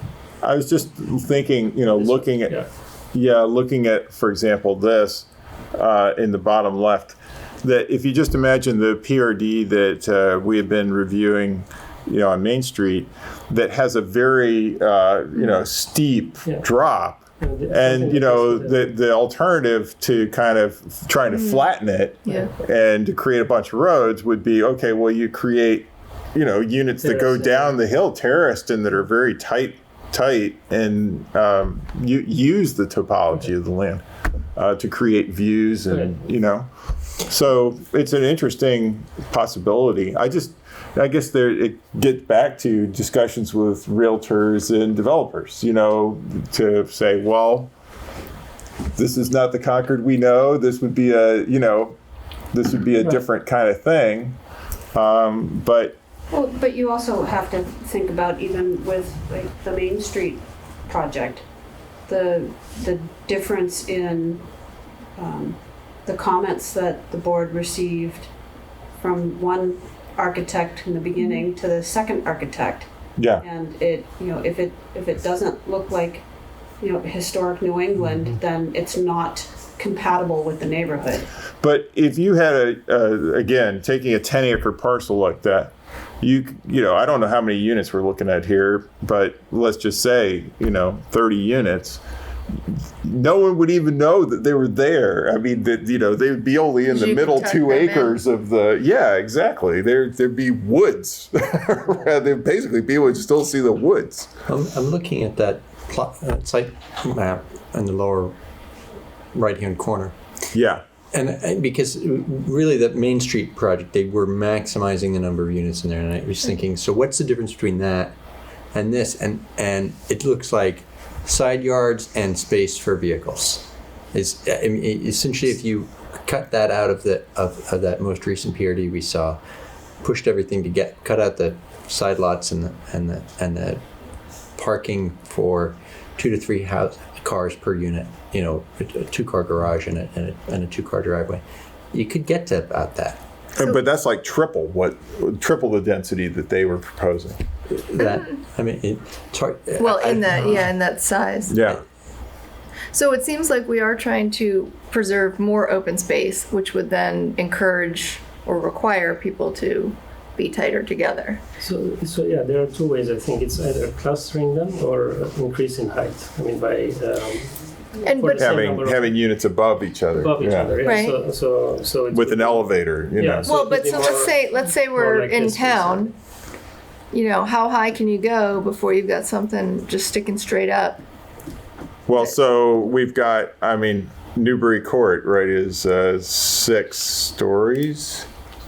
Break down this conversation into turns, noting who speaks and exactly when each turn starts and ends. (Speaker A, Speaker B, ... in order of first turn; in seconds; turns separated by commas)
Speaker A: 0.4-2.6, Speaker B: 1.9-2.7, Speaker A: 3.1-34.0, Speaker B: 17.4-18.9, Speaker C: 21.3-21.6, Speaker B: 27.0-27.7, Speaker A: 34.5-47.7, Speaker B: 35.9-36.2, Speaker A: 49.0-51.9, Speaker A: 52.5-54.4, Speaker A: 54.9-56.0, Speaker D: 56.3-61.4, Speaker D: 62.1-64.5, Speaker D: 65.2-68.3, Speaker D: 69.0-76.2, Speaker A: 73.2-73.4, Speaker D: 76.8-81.3, Speaker A: 81.6-92.0, Speaker A: 93.0-104.3, Speaker C: 96.9-98.1, Speaker E: 104.5-108.3, Speaker E: 109.3-110.1, Speaker A: 110.5-110.8, Speaker E: 111.1-118.2, Speaker E: 118.7-129.4, Speaker E: 130.0-133.8, Speaker E: 134.6-143.2, Speaker A: 143.6-147.4, Speaker E: 147.8-150.7, Speaker C: 149.8-151.6, Speaker A: 151.5-151.8, Speaker C: 152.9-161.4, Speaker B: 161.6-169.2, Speaker C: 168.0-168.6, Speaker A: 168.3-170.7, Speaker B: 170.1-176.1, Speaker C: 170.8-171.1, Speaker A: 172.1-173.8, Speaker C: 173.4-176.1, Speaker C: 177.1-181.0, Speaker A: 182.1-188.2